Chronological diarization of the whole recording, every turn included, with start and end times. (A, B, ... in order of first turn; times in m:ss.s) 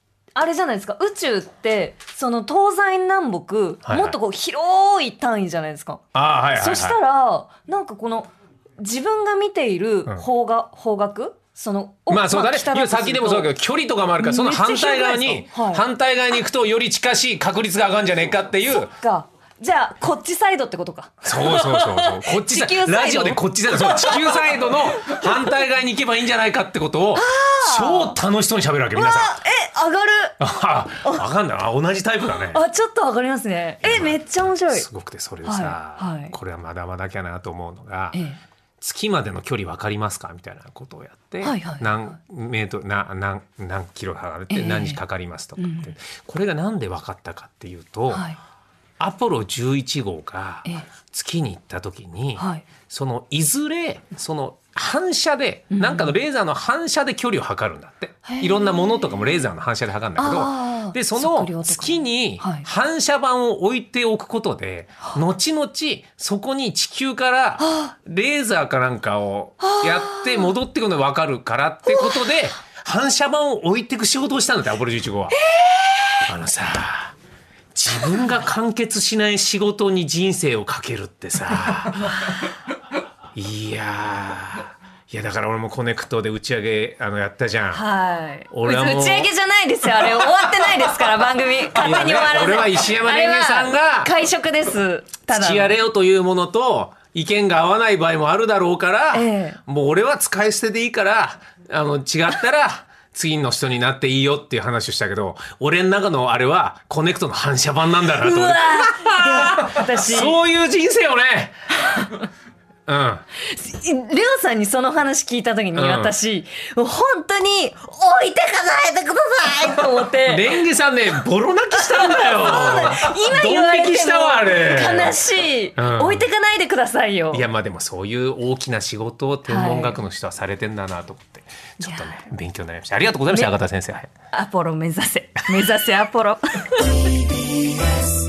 0:00.3-0:06.0 A
0:03.8-0:04.2 B
0:06.1-0:07.0 B
0:06.5-0:13.5 A
0:12.1-0:18.9 B
0:14.2-0:15.8 A
0:19.0-0:25.5 A
0:21.2-0:29.4 B
0:27.1-0:28.2 A
0:28.9-0:30.4 A
0:30.4-0:32.6 B
0:32.3-0:34.9 A
0:33.8-0:38.2 B
0:35.4-0:36.3 A
0:38.1-0:38.4 A
0:38.8-0:48.3 B
0:41.4-0:42.0 A
0:44.5-0:45.0 A
0:45.6-0:45.9 A
0:48.1-0:48.4 A
0:49.0-1:15.4 B
0:52.4-0:52.6 A
0:55.7-0:56.1 A
0:58.2-0:59.3 A
1:00.2-1:02.7 A
1:07.6-1:07.9 A
1:09.6-1:10.5 A
1:11.8-1:12.4 A
1:15.5-1:16.2 A
1:16.3-1:17.1 B
1:17.7-1:22.3 B
1:23.3-1:27.8 B
1:27.7-1:35.8 A
1:28.5-1:29.3 B
1:31.7-1:34.1 B
1:35.3-1:51.6 B
1:39.1-1:39.6 A
1:48.2-1:50.4 A
1:52.9-1:53.2 B
1:53.4-2:00.6 A
1:55.7-1:56.1 B
2:00.1-2:05.2 B
2:01.7-2:07.4 A
2:05.8-2:06.2 B
2:07.3-2:14.1 B
2:09.4-2:10.0 A
2:11.8-2:12.2 A
2:13.3-2:13.5 A
2:14.3-2:17.3 A